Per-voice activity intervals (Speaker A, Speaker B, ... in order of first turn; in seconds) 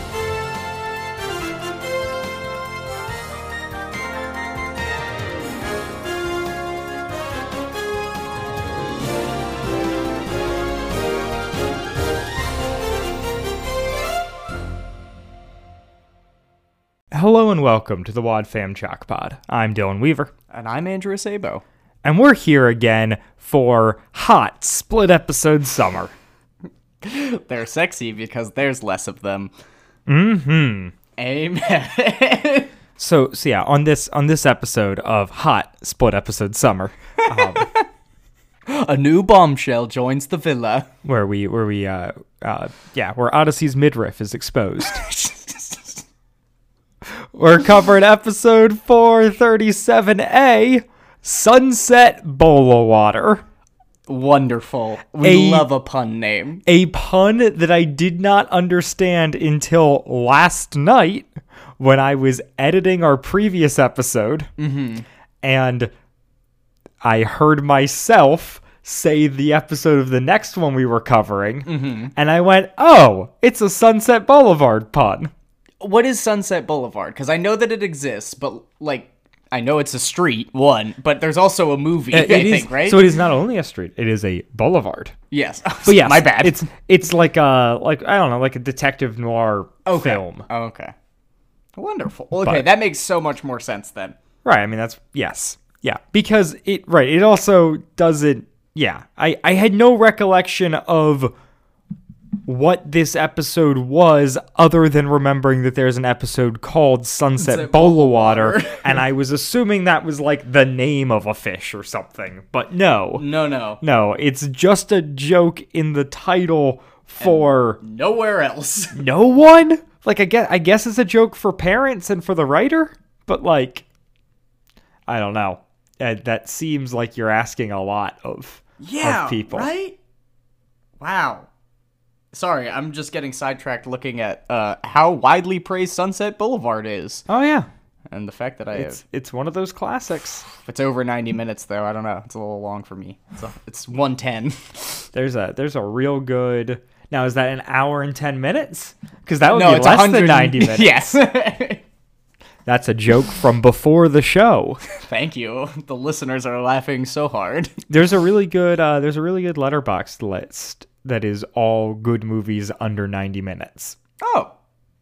Speaker A: 17.1-20.3, 22.0-26.1, 30.1-30.9, 33.0-37.7, 41.0-45.0, 47.3-53.4, 55.2-55.7, 56.7-64.5, 65.4-65.9, 67.0-75.3, 82.1-85.1, 85.9-90.5, 94.5-101.3, 102.5-113.2, 113.8-117.8, 118.9-123.9, 125.1-129.7, 137.3-137.7, 138.7-140.4, 145.1-151.1, 152.7-154.8, 157.9-164.0
Speaker B: 20.5-21.6, 27.0-29.5, 31.2-32.7, 37.2-37.9, 38.7-40.9, 44.8-46.0, 54.1-56.6, 64.6-65.0, 71.7-72.1, 75.8-83.1, 85.3-86.6, 89.8-90.9, 91.8-94.2, 107.4-109.0, 113.2-113.8, 117.2-119.0, 128.8-130.0, 131.0-131.5, 132.3-137.2, 138.1-139.0, 140.6-145.1, 149.5-151.8, 154.9-157.8, 164.2-164.5